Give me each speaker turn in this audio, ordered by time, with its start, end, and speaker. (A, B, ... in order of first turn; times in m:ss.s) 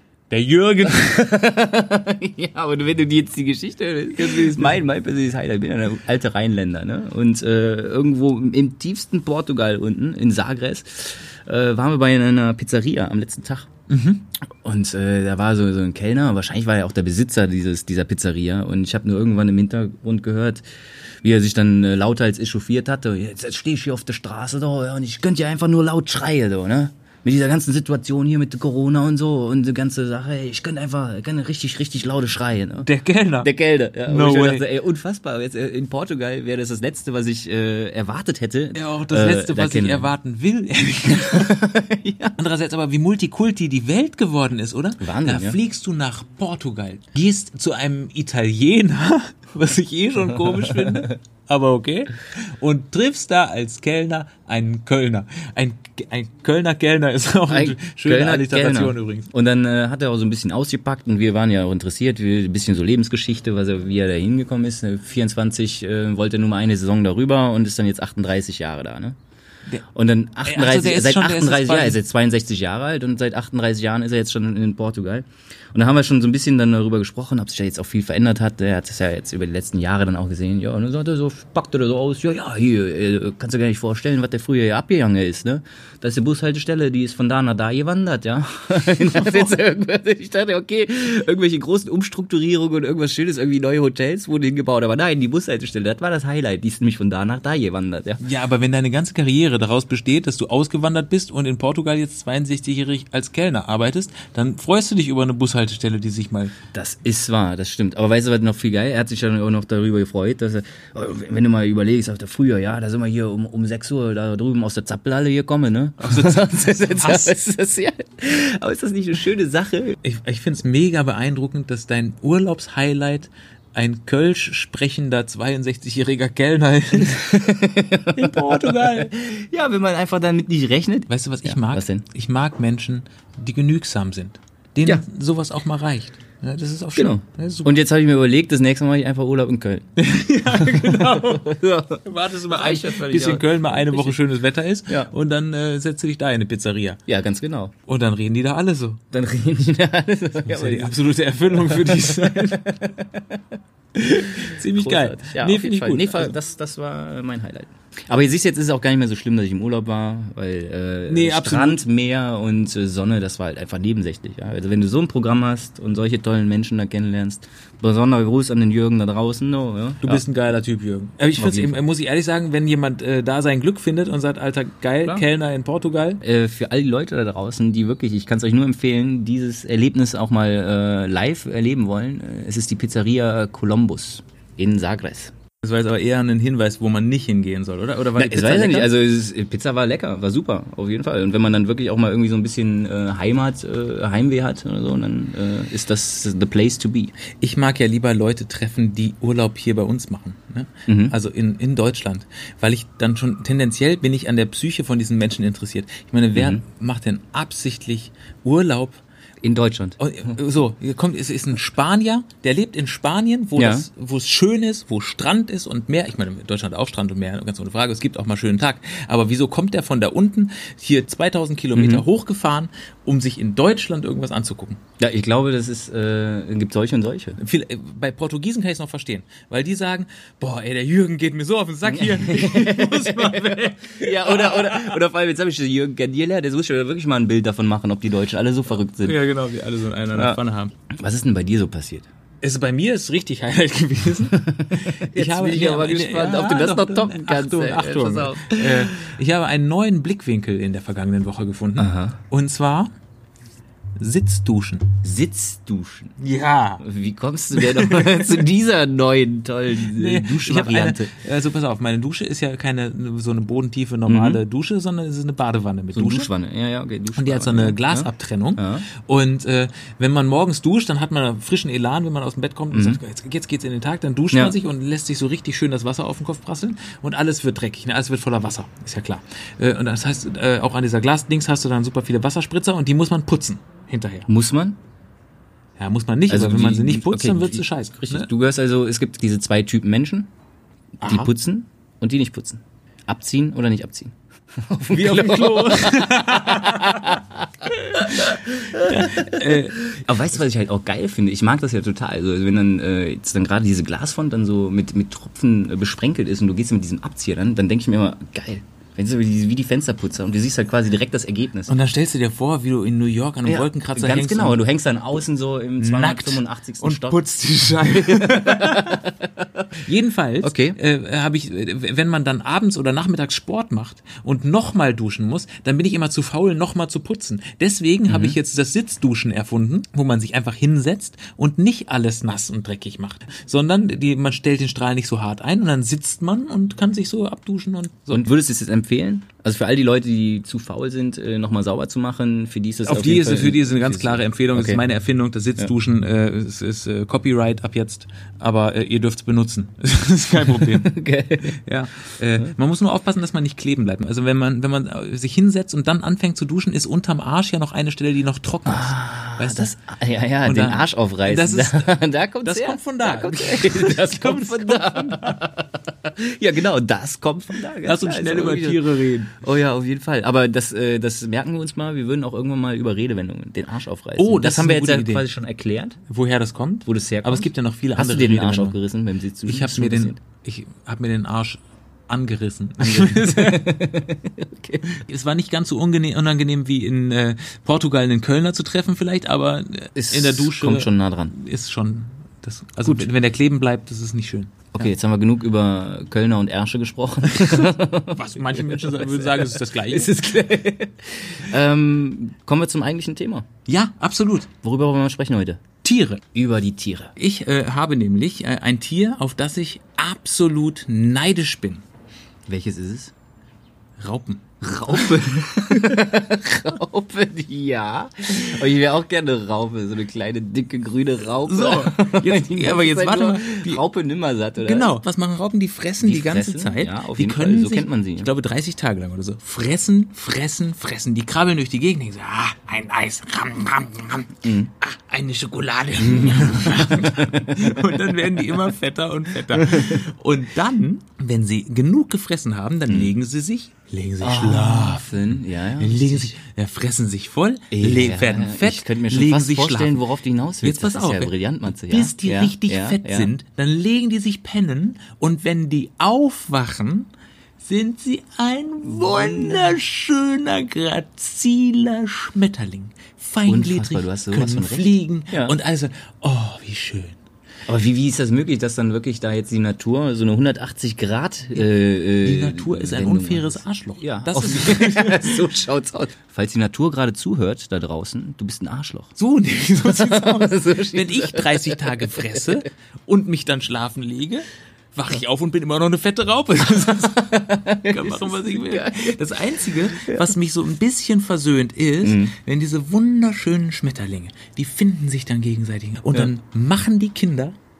0:00.3-0:01.1 A
0:00.9-0:13.7 B
0:04.1-0:04.8 A
0:13.9-0:14.2 A
0:14.4-0:20.6 B
0:21.2-0:40.1 B
0:32.8-0:33.5 A
0:34.0-0:34.6 A
0:38.7-0:41.7 A
0:41.1-0:42.4 B
0:42.4-0:59.3 A
0:45.0-0:45.6 B
0:50.6-0:51.1 B
0:57.5-1:09.2 B
1:09.9-1:38.2 B
1:10.4-1:12.0 A
1:28.9-1:29.6 A
1:38.2-1:46.5 A
1:46.7-2:00.0 B
1:56.0-1:57.3 A
2:00.0-2:07.3 A
2:07.0-2:12.0 B
2:08.1-2:09.1 A
2:11.1-2:17.7 A
2:16.9-2:19.9 B
2:20.0-2:27.0 A
2:20.5-2:24.2 B
2:27.1-2:27.7 B
2:27.9-2:29.0 A
2:29.1-2:33.4 B
2:30.4-2:32.7 A
2:34.0-2:36.4 A
2:34.1-2:50.2 B
2:41.1-2:41.8 A
2:50.0-2:56.2 A
2:51.4-2:51.8 B
2:56.2-3:05.3 B
3:05.6-3:08.9 A
3:08.2-3:17.1 B
3:17.4-3:29.0 A
3:20.9-3:21.2 B
3:26.3-3:26.6 B
3:29.4-3:30.3 B
3:30.0-3:44.8 A
3:33.6-3:33.8 B
3:41.7-3:42.0 B
3:45.0-3:47.4 B
3:47.4-3:55.0 A
3:51.9-3:59.2 B
3:59.0-4:00.7 A
4:00.1-4:02.1 B
4:02.4-4:12.9 A
4:04.3-4:09.1 B
4:11.8-4:12.2 B
4:14.0-4:14.8 A
4:15.0-4:16.2 B
4:16.2-4:16.8 A
4:16.8-4:21.1 B
4:17.5-4:18.4 A
4:19.7-4:26.3 A
4:24.1-4:24.4 B
4:25.9-4:28.9 B
4:27.2-4:44.3 A
4:32.7-4:33.0 B
4:44.3-4:44.8 B
4:45.8-4:48.3 A
4:46.3-4:50.3 B
4:51.0-5:11.7 B
4:51.0-4:51.3 A
4:54.9-4:57.2 A
4:57.8-4:59.8 A
5:11.7-5:14.6 A
5:13.4-5:17.2 B
5:15.8-5:19.0 A
5:17.8-5:19.6 B
5:19.8-5:38.3 A
5:20.4-5:20.8 B
5:28.1-5:28.4 B
5:38.1-5:44.8 B
5:42.8-5:51.0 A
5:50.8-5:51.6 B
5:51.5-5:59.7 A
5:58.6-6:16.0 B
6:00.4-6:05.4 A
6:07.8-6:09.3 A
6:14.2-6:15.3 A
6:16.1-6:18.8 A
6:16.8-6:20.2 B
6:19.4-6:23.8 A
6:22.8-6:25.0 B
6:24.9-6:34.7 A
6:29.9-6:31.3 B
6:32.8-6:33.1 B
6:34.7-6:43.5 B
6:37.4-6:40.2 A
6:43.7-6:44.5 A
6:44.6-6:45.6 B
6:45.8-6:46.2 A
6:46.3-6:47.1 B
6:47.2-6:51.8 A
6:52.5-6:53.1 B
6:54.0-6:56.0 A
6:54.6-7:05.0 B
7:01.3-7:03.8 A
7:04.6-7:30.0 A
7:06.0-7:08.3 B
7:14.4-7:14.7 B
7:16.0-7:18.0 B
7:19.6-7:20.0 B
7:24.2-7:26.4 B
7:27.7-7:33.3 B
7:30.6-7:47.2 A
7:38.9-7:39.8 B
7:43.4-7:45.6 B
7:47.7-7:59.2 B
7:52.1-7:55.5 A
7:59.2-8:17.6 A
7:59.8-8:02.4 B
8:07.2-8:10.3 B
8:12.0-8:12.3 B